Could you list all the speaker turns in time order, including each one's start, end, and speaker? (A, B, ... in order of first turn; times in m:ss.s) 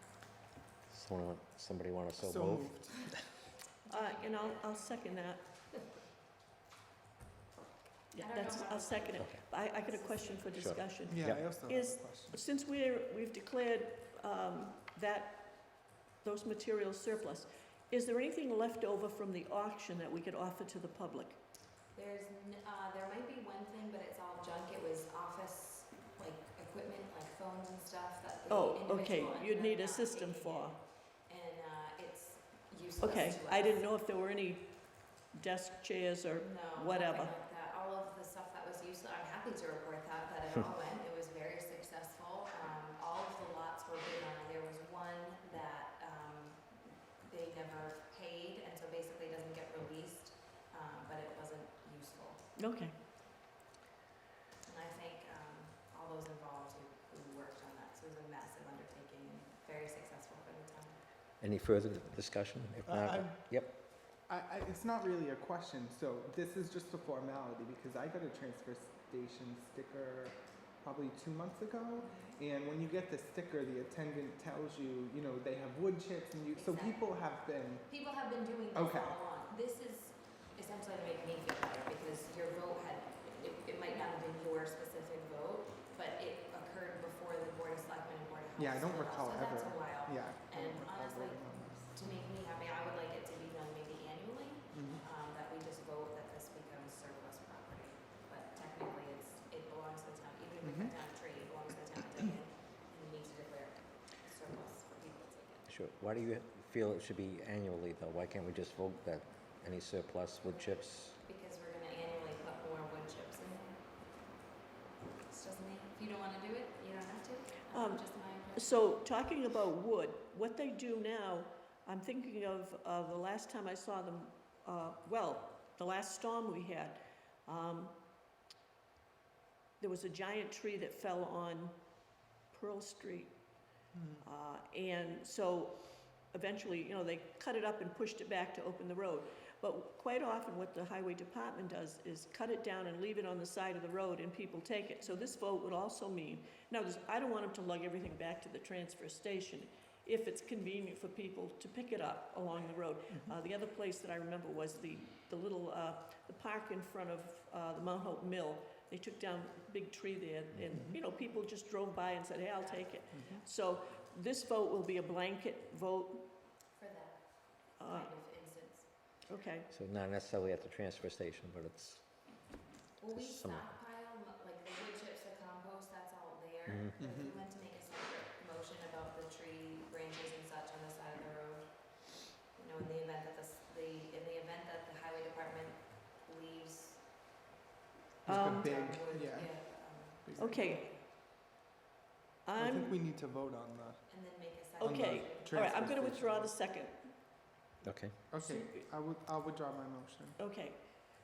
0:00.9-0:03.1 A
0:02.2-0:03.2 B
0:03.8-0:05.7 C
0:03.9-0:05.5 D
0:08.1-0:21.4 C
0:08.2-0:10.5 D
0:10.5-0:11.5 A
0:11.1-0:12.4 B
0:21.9-0:33.8 D
0:28.5-0:30.8 C
0:33.0-0:37.3 C
0:36.4-0:52.5 D
0:52.6-0:52.9 C
0:54.6-1:01.0 D
1:01.4-1:03.8 A
1:02.8-1:18.1 B
1:12.0-1:12.4 D
1:16.6-1:17.1 D
1:17.9-1:45.7 D
1:18.7-1:19.2 B
1:28.6-1:32.0 B
1:34.7-1:35.0 B
1:40.6-1:40.9 B
1:45.7-1:51.2 A
1:50.5-1:53.9 D
1:55.2-1:58.8 D
1:57.7-2:08.0 C
2:09.8-2:13.5 C
2:13.9-2:14.2 B
2:14.2-2:46.3 C
2:40.5-2:40.8 A
2:40.7-2:41.0 B
2:42.6-2:43.4 D
2:46.7-2:48.9 D
2:47.8-2:48.1 C
2:49.2-2:49.7 C
2:49.7-2:52.5 A
2:53.0-3:07.2 D
2:53.1-2:53.7 A
2:57.0-2:57.3 B
3:08.2-3:10.6 B
3:08.2-3:08.7 C
3:08.4-3:11.1 D
3:10.4-3:10.9 C
3:12.4-3:13.0 C
3:12.5-3:16.5 B
3:14.1-3:15.6 D
3:14.8-3:17.2 C
3:17.8-3:18.3 A
3:18.3-3:20.4 B
3:18.4-3:18.8 C
3:20.4-3:20.8 C